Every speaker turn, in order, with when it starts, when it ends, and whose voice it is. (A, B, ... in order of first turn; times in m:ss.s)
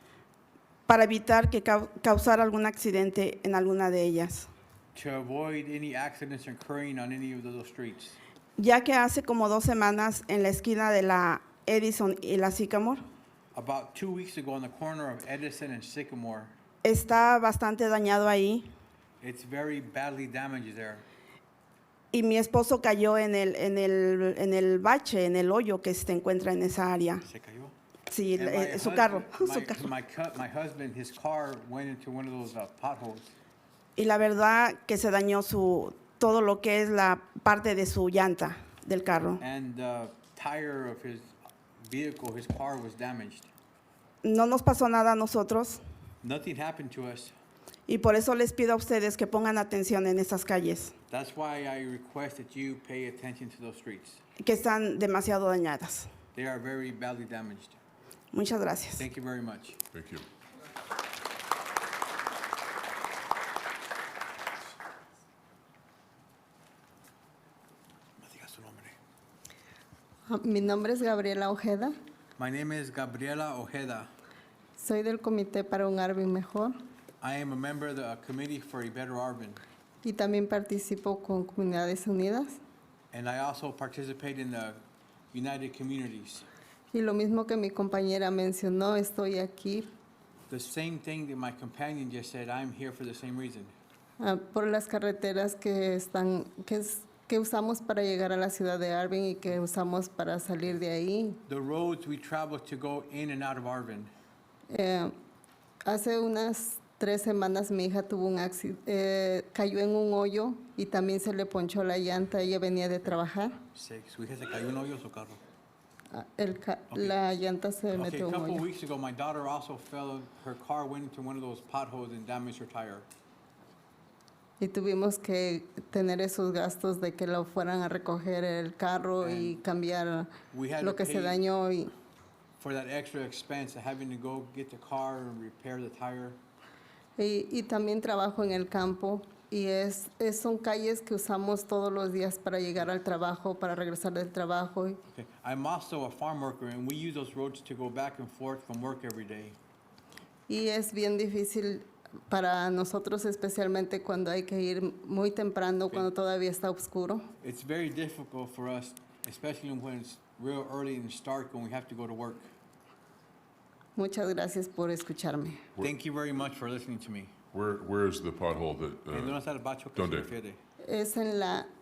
0:00.9-0:04.5 A
0:05.0-0:08.2 B
0:08.6-0:13.0 A
0:13.5-0:16.5 B
0:16.8-0:18.7 A
0:19.2-0:21.0 B
0:22.1-0:27.2 A
0:27.2-0:27.7 B
0:28.1-0:29.9 A
0:28.4-0:33.3 B
0:34.0-0:39.4 A
0:39.4-0:43.5 B
0:44.2-0:45.8 A
0:46.2-0:47.4 B
0:47.9-0:51.0 A
0:51.1-0:54.2 B
0:54.4-0:56.1 A
0:56.3-0:57.8 B
0:58.3-0:59.0 A
0:59.0-0:59.8 B
0:59.9-1:00.2 C
1:08.2-1:09.0 B
1:10.3-1:11.9 D
1:12.4-1:14.1 B
1:14.8-1:16.7 D
1:17.2-1:19.6 B
1:20.0-1:22.6 D
1:23.1-1:24.8 B
1:25.3-1:26.5 B
1:26.9-1:29.9 D
1:30.5-1:33.7 B
1:34.2-1:41.4 D
1:41.4-1:44.1 B
1:44.7-1:45.1 D
1:45.9-1:53.6 D
1:53.7-1:55.4 B
1:56.1-1:58.6 D
1:56.9-1:57.2 B
1:57.9-2:03.1 B
2:04.6-2:11.9 D
2:09.2-2:09.6 B
2:10.5-2:11.4 B
2:12.6-2:16.4 B
2:17.2-2:25.0 D
2:25.1-2:29.6 B
2:30.5-2:37.3 D
2:37.4-2:42.5 B
2:44.0-2:45.6 D
2:45.8-2:47.4 B
2:47.5-2:49.4 C
2:49.1-2:50.6 B
2:49.9-2:50.3 C
2:50.8-2:51.7 D